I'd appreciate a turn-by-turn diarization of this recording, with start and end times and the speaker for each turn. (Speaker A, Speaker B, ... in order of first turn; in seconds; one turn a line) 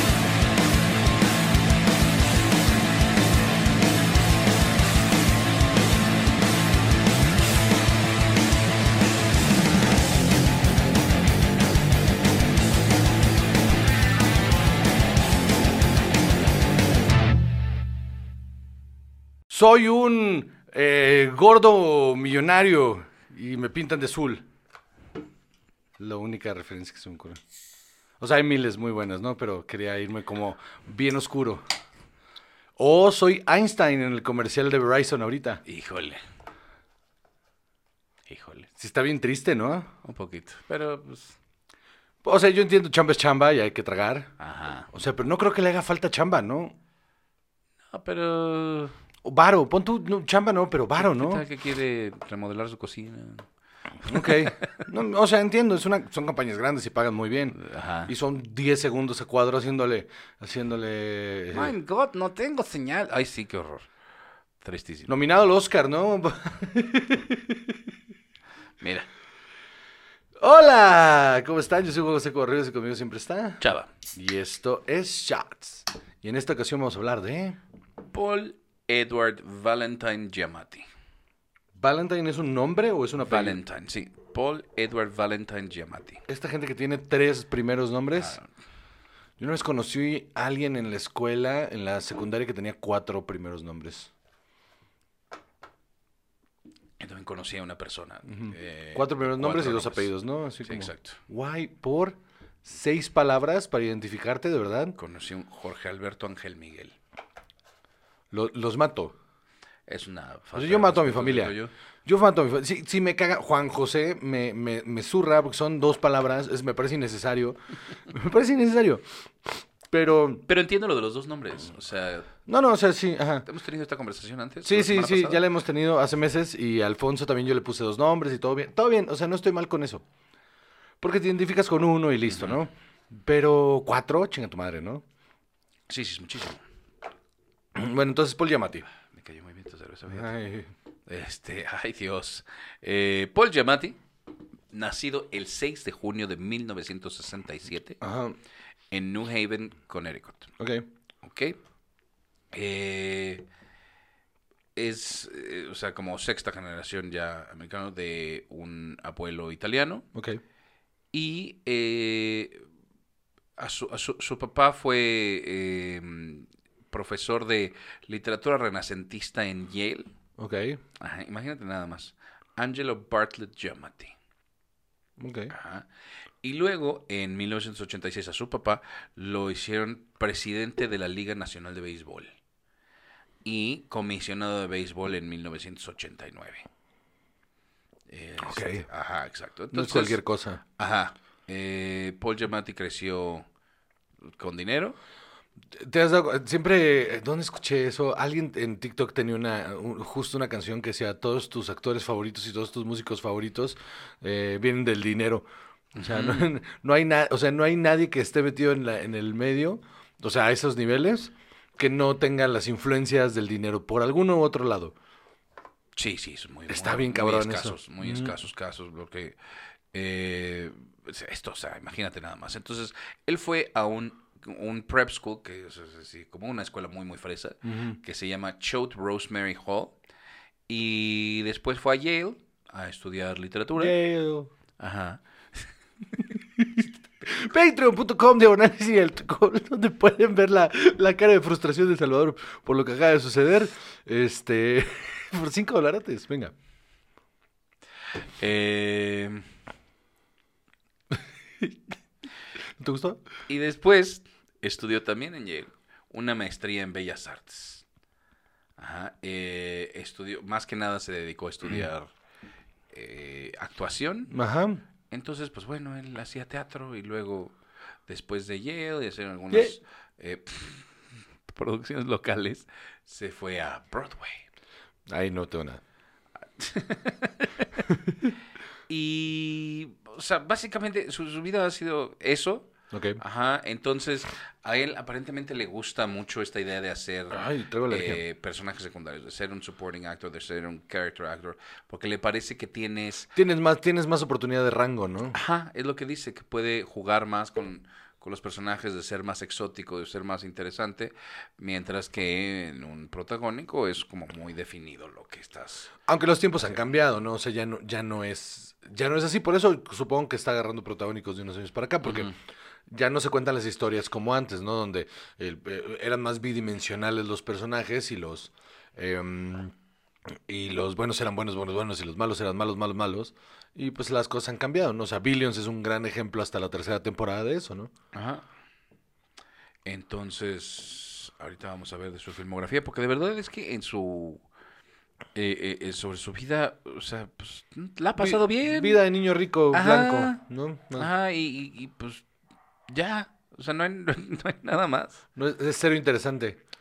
Speaker A: 19.5-24.4
Speaker A: 26.0-27.4
Speaker A: 28.2-31.6
Speaker A: 32.8-35.6
Speaker B: 35.7-36.2
Speaker B: 38.3-38.7
Speaker A: 38.8-39.9
Speaker B: 40.0-41.4
Speaker A: 42.2-44.3
Speaker B: 44.4-44.9
Speaker A: 44.9-46.8
Speaker B: 47.9-49.0
Speaker A: 49.2-51.4
Speaker B: 51.0-53.5
Speaker B: 54.0-54.9
Speaker A: 54.0-61.7
Speaker B: 57.5-58.1
Speaker B: 61.5-63.9
Speaker B: 64.6-65.1
Speaker A: 65.1-67.8
Speaker B: 68.8-69.1
Speaker A: 70.4-73.6
Speaker B: 73.6-73.9
Speaker A: 74.1-77.6
Speaker B: 78.1-80.9
Speaker A: 81.8-83.6
Speaker B: 83.2-86.2
Speaker A: 86.3-88.4
Speaker B: 88.2-88.5
Speaker A: 89.4-94.1
Speaker B: 97.0-100.1
Speaker A: 98.3-105.0
Speaker B: 100.6-101.2
Speaker B: 105.0-107.0
Speaker A: 108.3-109.2
Speaker B: 109.9-111.7
Speaker A: 110.5-120.5
Speaker B: 120.5-122.3
Speaker A: 122.5-123.5
Speaker B: 123.5-125.4
Speaker A: 124.7-130.0
Speaker A: 131.0-135.0
Speaker B: 132.3-132.6
Speaker B: 135.9-136.6
Speaker A: 137.8-138.9
Speaker B: 139.1-140.3
Speaker A: 140.1-140.7
Speaker B: 141.1-144.0
Speaker B: 144.7-148.0
Speaker A: 148.0-148.4
Speaker B: 148.9-150.5
Speaker A: 150.6-150.8
Speaker B: 151.2-151.6
Speaker B: 152.5-153.5
Speaker B: 154.8-160.1
Speaker A: 160.1-160.4
Speaker B: 161.1-162.7
Speaker B: 163.6-170.1
Speaker A: 170.4-170.8
Speaker B: 171.0-174.2
Speaker A: 175.2-175.5
Speaker B: 175.5-175.9
Speaker B: 176.4-182.3
Speaker B: 183.4-186.7
Speaker B: 188.1-190.2
Speaker A: 188.4-188.8
Speaker A: 189.7-190.6
Speaker B: 190.8-193.5
Speaker B: 194.3-195.0
Speaker A: 195.7-205.5
Speaker B: 205.9-206.5
Speaker A: 206.0-214.9
Speaker B: 216.0-219.4
Speaker A: 216.7-218.3
Speaker B: 219.9-229.9
Speaker A: 227.7-228.0
Speaker B: 230.7-233.9
Speaker A: 233.8-234.5
Speaker B: 234.8-235.7
Speaker A: 236.4-246.5
Speaker B: 248.4-249.5
Speaker A: 251.1-251.8
Speaker A: 252.8-253.2
Speaker B: 253.5-257.8
Speaker B: 258.8-262.1
Speaker B: 262.9-264.3
Speaker A: 264.3-264.8
Speaker B: 265.1-267.6
Speaker B: 268.1-271.0
Speaker B: 271.5-274.4
Speaker A: 275.1-275.8
Speaker B: 276.6-277.9
Speaker B: 278.9-293.3
Speaker A: 282.9-283.2
Speaker A: 287.3-288.2
Speaker A: 293.4-295.4
Speaker B: 295.3-305.9
Speaker A: 306.1-312.3
Speaker B: 312.1-312.3
Speaker A: 312.9-319.7
Speaker A: 320.5-327.9
Speaker B: 328.1-328.4
Speaker B: 329.9-334.4
Speaker B: 335.4-339.0
Speaker A: 338.2-341.1
Speaker B: 339.7-340.4
Speaker B: 341.0-342.2
Speaker B: 342.9-345.2
Speaker A: 345.4-346.6